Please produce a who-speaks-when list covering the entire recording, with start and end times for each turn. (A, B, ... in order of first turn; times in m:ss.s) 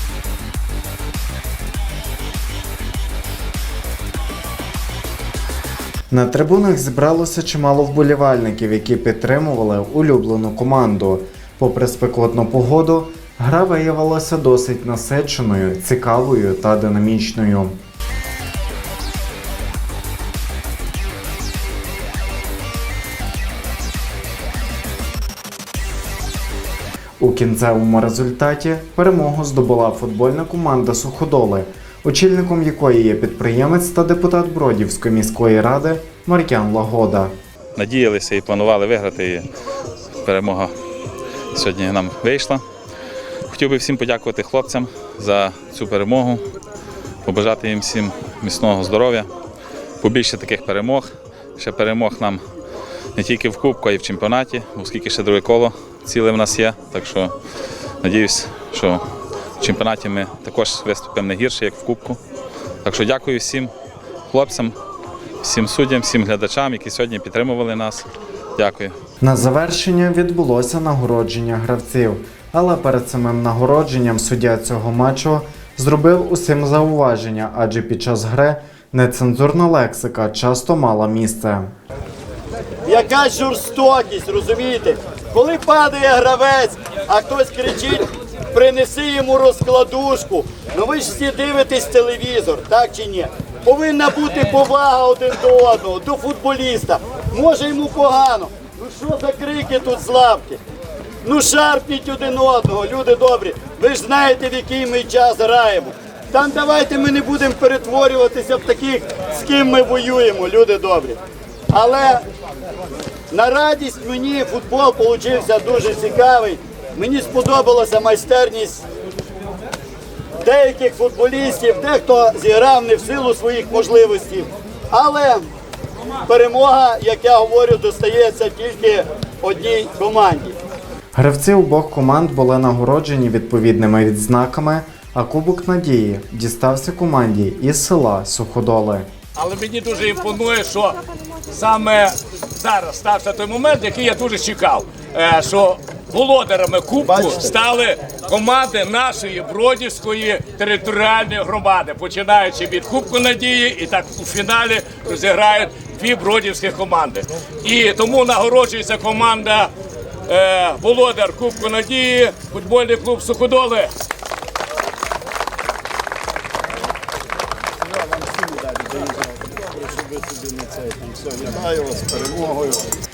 0:06.1-0:17.8 A
0:27.2-0:37.3 A
0:37.8-0:39.5 B
0:40.2-0:40.7 B
0:41.5-0:42.6 B
0:43.5-0:46.4 B
0:47.2-0:49.3 B
0:50.0-0:52.4 B
0:53.2-0:57.3 B
0:58.0-0:59.0 B
0:59.6-1:02.2 B
1:02.8-1:03.7 B
1:04.3-1:04.7 B
1:05.4-1:08.0 B
1:08.6-1:08.9 B
1:09.2-1:21.7 A
1:22.8-1:40.6 C
1:41.2-1:51.2 C
1:51.7-1:52.2 C
1:53.3-1:58.8 C
2:00.4-2:05.4 C
2:06.2-2:10.6 C
2:11.1-2:19.1 A
2:19.3-2:39.7 D
2:40.3-2:43.9 D
2:50.2-2:52.5 D
2:51.2-2:52.5 C